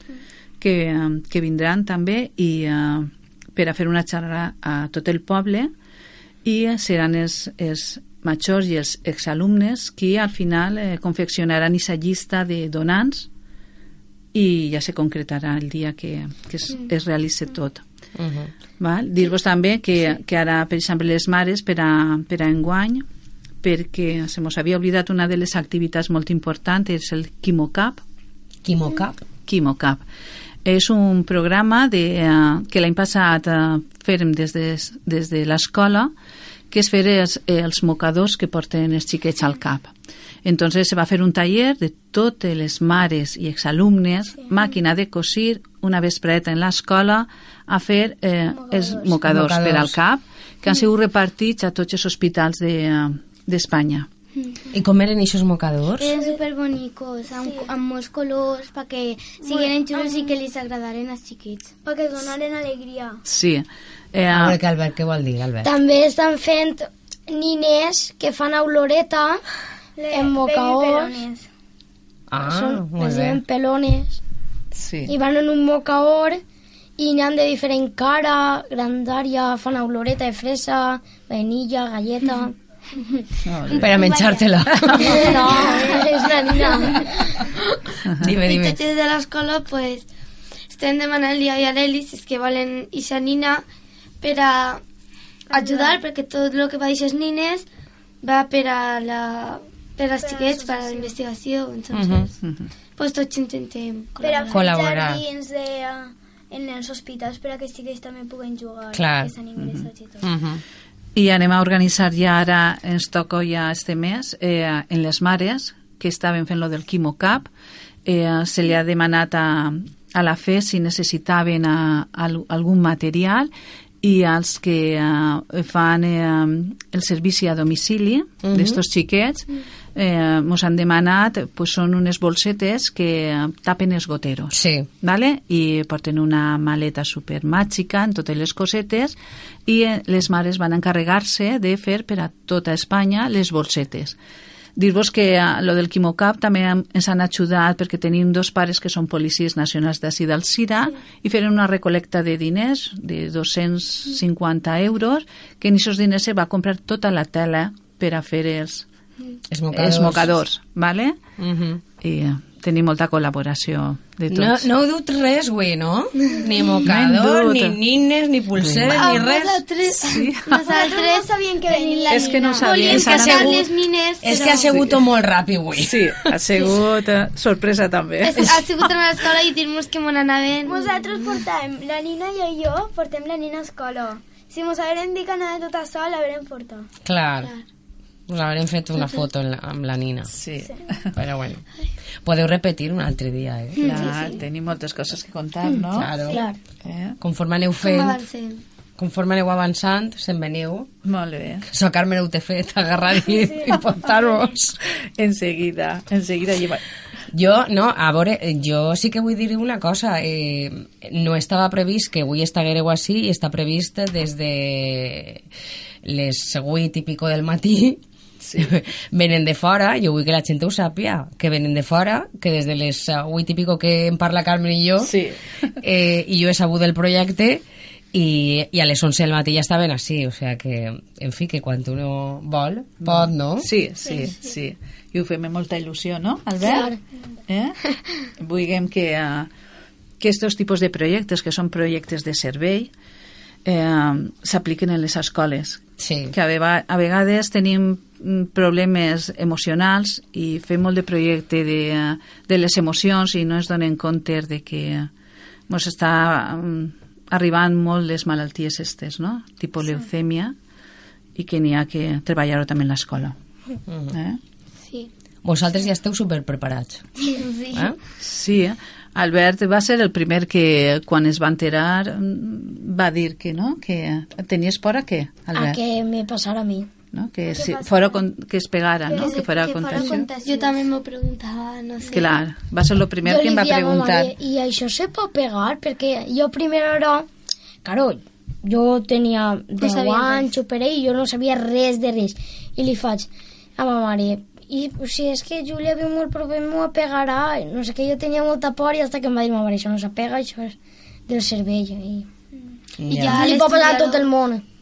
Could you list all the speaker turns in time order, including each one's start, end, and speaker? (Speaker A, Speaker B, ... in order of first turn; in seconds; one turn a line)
Speaker A: 0.6-5.7
Speaker A: 6.4-13.3
Speaker A: 14.3-17.8
Speaker B: 18.1-18.5
Speaker A: 18.8-23.1
Speaker A: 23.6-28.0
Speaker B: 28.6-29.2
Speaker A: 29.4-30.0
Speaker A: 30.6-36.1
Speaker A: 36.7-39.9
Speaker A: 40.4-54.1
Speaker C: 48.5-49.1
Speaker B: 49.2-50.0
Speaker B: 54.7-56.1
Speaker D: 56.0-61.7
Speaker C: 57.2-57.7
Speaker C: 59.4-60.3
Speaker C: 61.8-63.2
Speaker A: 63.2-64.6
Speaker B: 64.3-65.7
Speaker E: 65.6-69.4
Speaker C: 70.0-71.5
Speaker E: 70.1-71.2
Speaker B: 72.3-73.4
Speaker E: 72.4-74.2
Speaker A: 74.7-75.1
Speaker E: 75.0-76.4
Speaker E: 77.0-82.5
Speaker A: 83.4-84.0
Speaker D: 83.7-86.7
Speaker B: 83.7-85.5
Speaker E: 85.0-87.2
Speaker B: 87.4-88.8
Speaker A: 88.0-88.3
Speaker F: 88.4-90.1
Speaker F: 90.7-93.6
Speaker F: 94.2-94.8
Speaker F: 95.5-97.7
Speaker C: 95.5-96.0
Speaker F: 98.2-102.3
Speaker C: 100.2-101.2
Speaker B: 101.9-102.3
Speaker A: 102.4-102.7
Speaker F: 103.0-104.6
Speaker C: 104.2-110.3
Speaker B: 104.5-105.2
Speaker B: 108.9-109.3
Speaker A: 109.5-109.9
Speaker B: 110.2-110.6
Speaker A: 111.1-117.5
Speaker A: 118.0-123.5
Speaker A: 124.0-139.1
Speaker B: 128.4-128.8
Speaker B: 134.5-134.9
Speaker A: 139.7-144.1
Speaker A: 144.8-158.8
Speaker B: 159.5-160.3
Speaker A: 159.7-161.2
Speaker B: 161.4-161.8
Speaker A: 162.0-164.7
Speaker B: 164.3-169.6
Speaker A: 166.8-167.8
Speaker A: 168.6-169.2
Speaker F: 168.9-174.7
Speaker A: 169.9-170.7
Speaker C: 170.6-173.0
Speaker A: 172.1-173.6
Speaker B: 172.8-173.7
Speaker B: 174.2-176.3
Speaker A: 174.5-175.0
Speaker A: 175.7-178.9
Speaker F: 178.2-181.4
Speaker C: 180.6-186.9
Speaker B: 187.0-187.5
Speaker B: 188.3-190.3
Speaker A: 190.3-191.2
Speaker B: 191.1-191.6
Speaker B: 192.2-194.1
Speaker F: 193.8-194.4
Speaker A: 193.8-196.1
Speaker B: 195.9-196.4
Speaker A: 196.8-197.2
Speaker B: 197.2-198.2
Speaker F: 197.8-198.6
Speaker B: 199.0-200.9
Speaker A: 201.0-201.7
Speaker B: 201.7-204.8
Speaker A: 205.2-206.8
Speaker B: 207.3-215.4
Speaker B: 216.0-218.0
Speaker A: 218.4-218.7
Speaker B: 218.6-225.2
Speaker A: 225.0-225.4
Speaker B: 225.8-233.7
Speaker A: 233.0-236.9
Speaker C: 234.0-234.3
Speaker E: 236.6-237.0
Speaker A: 237.5-237.8
Speaker A: 238.4-239.5
Speaker A: 240.2-242.9
Speaker A: 243.6-255.1
Speaker B: 246.0-246.3
Speaker A: 255.7-260.5
Speaker A: 261.4-263.3
Speaker B: 263.9-264.1
Speaker A: 264.1-264.4
Speaker B: 265.4-267.0
Speaker D: 267.3-267.8
Speaker A: 268.2-275.8
Speaker E: 275.5-276.9
Speaker A: 277.1-280.2
Speaker C: 277.5-278.2
Speaker C: 279.1-280.4
Speaker D: 279.1-280.7
Speaker F: 280.0-282.4
Speaker A: 282.1-284.3
Speaker E: 283.2-287.3
Speaker E: 287.8-300.8
Speaker F: 289.8-290.5
Speaker E: 301.3-302.3
Speaker B: 303.0-303.5
Speaker F: 303.1-304.3
Speaker E: 303.2-304.6